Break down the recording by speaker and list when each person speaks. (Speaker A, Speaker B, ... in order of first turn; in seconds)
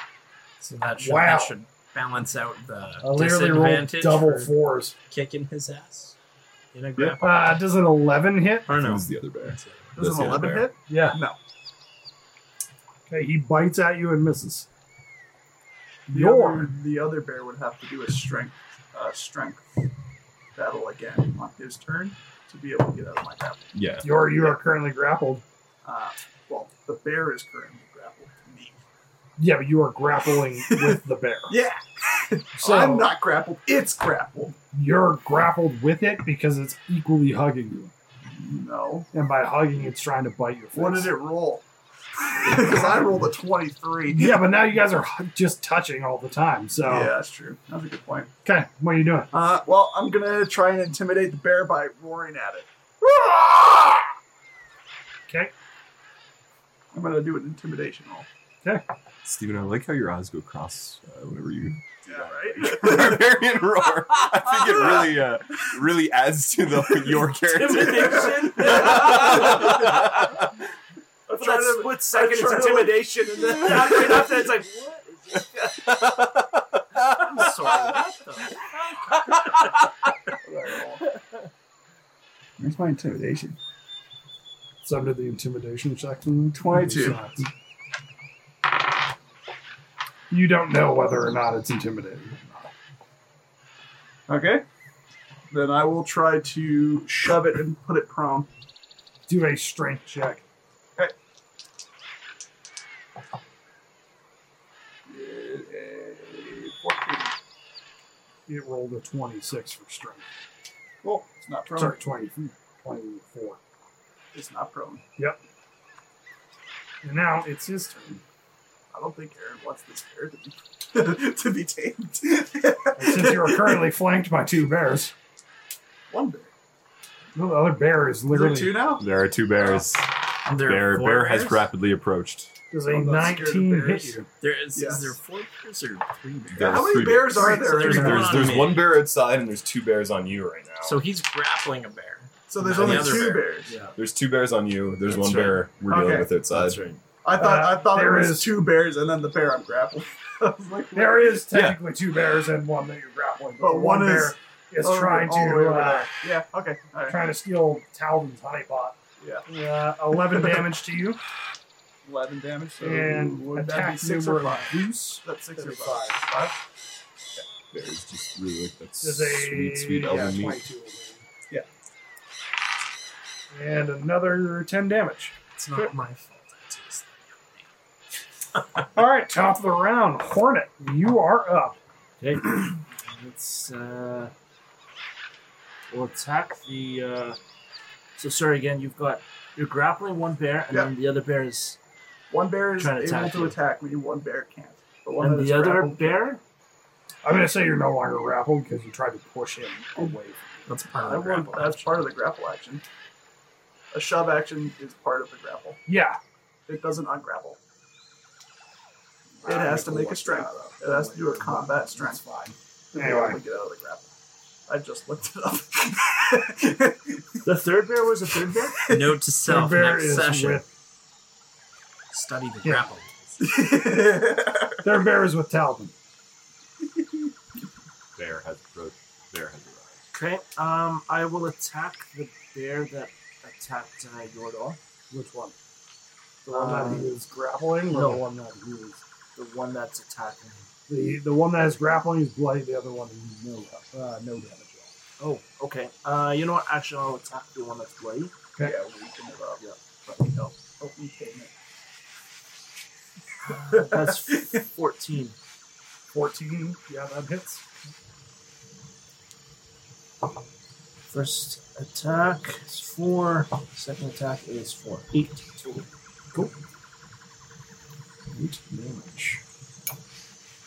Speaker A: 0.6-4.5, 5.1-6.2, 6.7-7.6, 8.7-10.2, 130.4-131.7, 134.4-138.9, 140.8-143.7, 145.1-145.7, 146.5-147.0, 175.6-177.6, 200.7-201.8, 218.9-220.6, 222.1-223.6
Speaker B: 1.0-1.5, 3.0-4.9, 7.2-8.7, 10.9-11.2, 13.1-14.7, 16.1-16.7, 24.0-25.4, 29.4-31.5, 32.5-33.1, 34.7-37.9, 39.1-41.1, 44.1-47.1, 48.4-49.3, 84.8-87.5, 90.3-92.7, 99.3-100.4, 108.5-110.3, 111.7-113.6, 117.0-118.2, 123.0-125.1, 127.3-128.9, 132.7-134.3, 137.4-138.2, 147.3-148.5, 150.9-156.1, 157.1-161.2, 162.8-166.5, 169.0-171.2, 173.5-175.3, 178.8-181.8, 197.2-200.7, 205.9-206.2, 209.4-213.4, 219.4-220.7, 222.6-222.9, 224.8-225.9, 235.1-235.6, 236.4-239.0, 240.9-244.9, 256.1-257.7, 268.3-269.4
Speaker C: 8.7-10.7, 23.7-24.1, 59.2-70.5, 75.5-77.8, 79.1-79.7, 129.0-132.5, 136.5-141.0, 142.9-143.2, 143.9-146.8, 151.5-151.8, 167.7-170.6, 228.2-230.0
Speaker D: 9.9-11.4, 16.1-19.7, 20.5-23.8, 25.8-28.8, 30.6-34.6, 38.3-39.1, 40.7-41.6, 42.2-44.4, 46.8-48.3, 49.3-54.0, 56.9-58.3, 62.0-63.3, 64.8-65.1, 67.8-69.7, 71.3-74.4, 80.4-81.1, 82.6-83.6, 86.5-87.2, 94.3-94.6, 95.5-98.5, 105.1-107.3, 111.0-112.0, 114.3-115.0, 118.9-123.9, 126.1-126.5, 128.3-129.1, 132.9-134.2, 134.7-135.1, 136.6-138.6, 142.5-143.7, 145.9-146.3, 147.2-151.4, 153.6-157.2, 159.2-159.5, 162.0-166.5, 192.3-196.3, 201.0-202.8, 203.9-205.8, 206.7-207.6, 209.4-212.2, 212.9-214.1, 214.7-217.4, 218.4-219.1, 223.4-224.8, 226.8-227.3, 248.6-251.5, 253.7-254.4
Speaker E: 67.5-70.0, 71.3-75.5, 77.1-78.6, 182.2-184.3, 185.9-187.4, 188.2-191.8, 192.8-193.6, 195.2-196.4, 217.4-218.9, 230.1-234.8, 236.5-237.1, 237.9-238.2, 239.3-240.7, 245.2-248.3, 253.5-255.3, 261.1-265.9